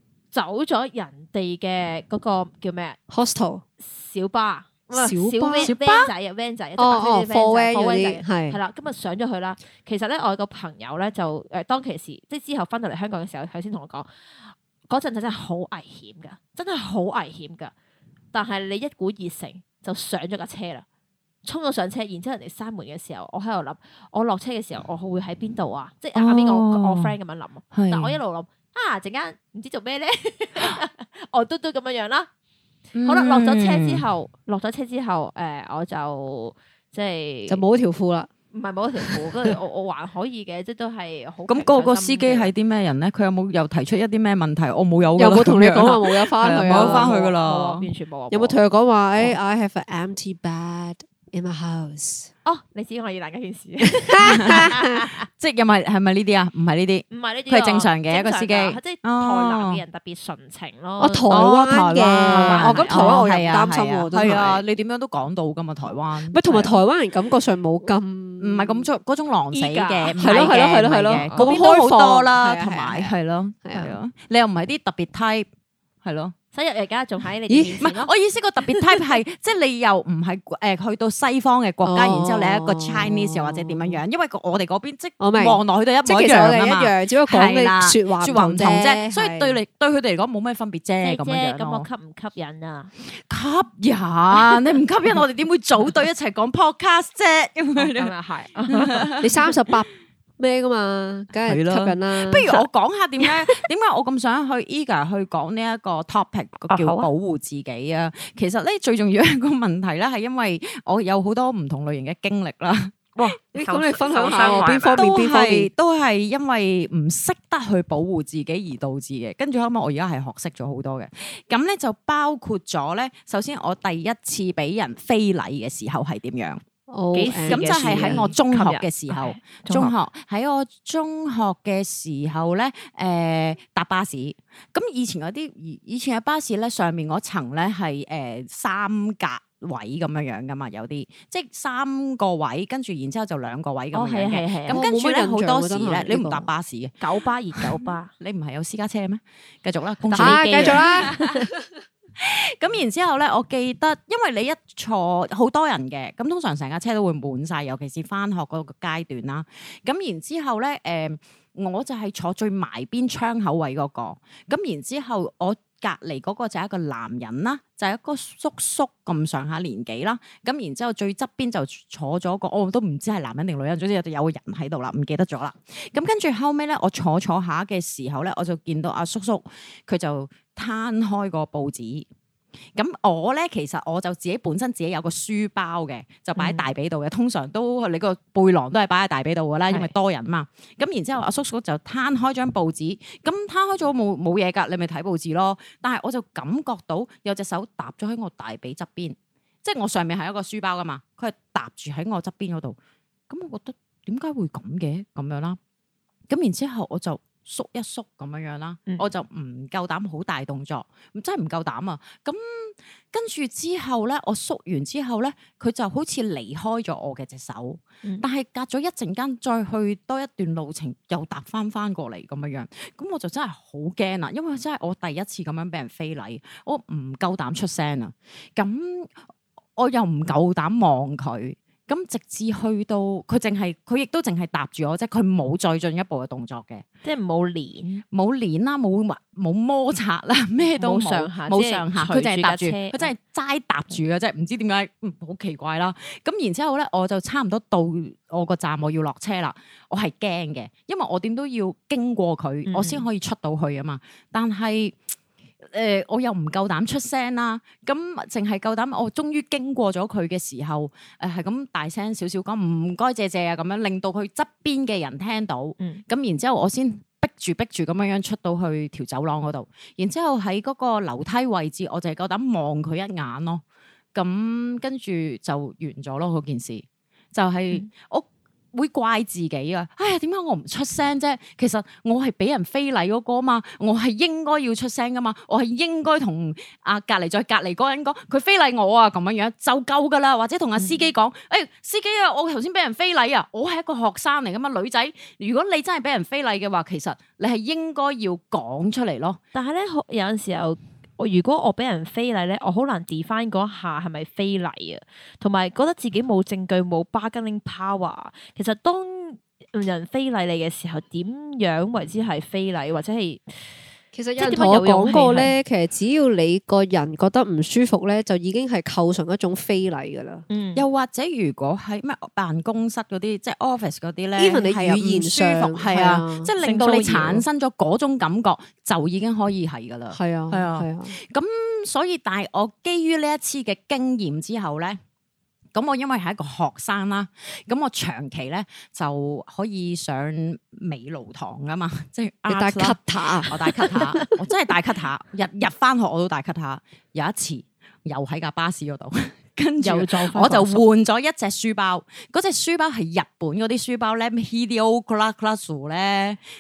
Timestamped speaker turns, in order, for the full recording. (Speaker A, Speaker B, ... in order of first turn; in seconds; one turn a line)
Speaker A: 0.3-3.0
Speaker B: 3.1-3.6
Speaker A: 3.8-17.7
Speaker B: 4.9-5.7
Speaker C: 5.6-6.1
Speaker B: 6.8-8.6
Speaker A: 18.3-20.9
Speaker A: 21.4-32.3
Speaker C: 26.1-27.1
Speaker C: 27.7-28.2
Speaker C: 32.9-34.0
Speaker A: 33.0-37.6
Speaker B: 37.5-38.3
Speaker A: 38.5-42.5
Speaker C: 41.5-47.9
Speaker B: 45.1-47.3
Speaker A: 46.5-48.6
Speaker B: 48.3-52.3
Speaker A: 52.5-55.2
Speaker B: 53.8-55.0
Speaker C: 54.4-54.6
Speaker C: 55.4-59.8
Speaker A: 57.1-61.5
Speaker B: 61.0-64.6
Speaker C: 61.3-66.7
Speaker A: 62.2-63.2
Speaker B: 66.3-68.9
Speaker C: 68.4-75.5
Speaker A: 69.5-70.6
Speaker B: 70.2-73.1
Speaker A: 71.1-71.5
Speaker B: 73.7-74.0
Speaker C: 76.0-76.3
Speaker A: 76.5-78.1
Speaker B: 77.5-77.8
Speaker C: 77.8-91.9
Speaker B: 81.8-84.0
Speaker B: 85.2-89.6
Speaker A: 91.0-92.9
Speaker C: 93.1-98.1
Speaker A: 97.8-99.1
Speaker C: 98.7-99.3
Speaker B: 99.2-102.5
Speaker C: 101.5-113.3
Speaker A: 103.2-103.6
Speaker A: 106.7-107.1
Speaker A: 113.2-115.0
Speaker B: 113.5-115.7
Speaker C: 113.9-126.6
Speaker B: 126.9-128.3
Speaker A: 127.1-129.9
Speaker C: 127.5-147.0
Speaker A: 143.9-144.8
Speaker B: 144.7-146.5
Speaker A: 147.0-148.1
Speaker C: 147.5-151.3
Speaker A: 150.1-151.5
Speaker B: 150.1-151.2
Speaker C: 152.2-182.1
Speaker C: 182.8-202.8
Speaker A: 186.4-186.6
Speaker C: 203.3-205.6
Speaker C: 206.3-229.2
Speaker C: 229.8-236.8
Speaker A: 237.0-238.0
Speaker C: 238.1-255.0
Speaker A: 240.8-243.1
Speaker A: 252.7-253.0
Speaker C: 255.6-273.6
Speaker C: 274.1-299.4
Speaker A: 290.8-291.0
Speaker A: 299.5-313.6
Speaker B: 314.1-320.4
Speaker A: 314.4-315.5
Speaker A: 320.5-320.8
Speaker C: 320.8-335.0
Speaker B: 324.4-326.5
Speaker A: 326.6-327.4
Speaker B: 330.1-331.1
Speaker C: 335.7-356.4
Speaker B: 342.5-344.1
Speaker A: 349.8-350.8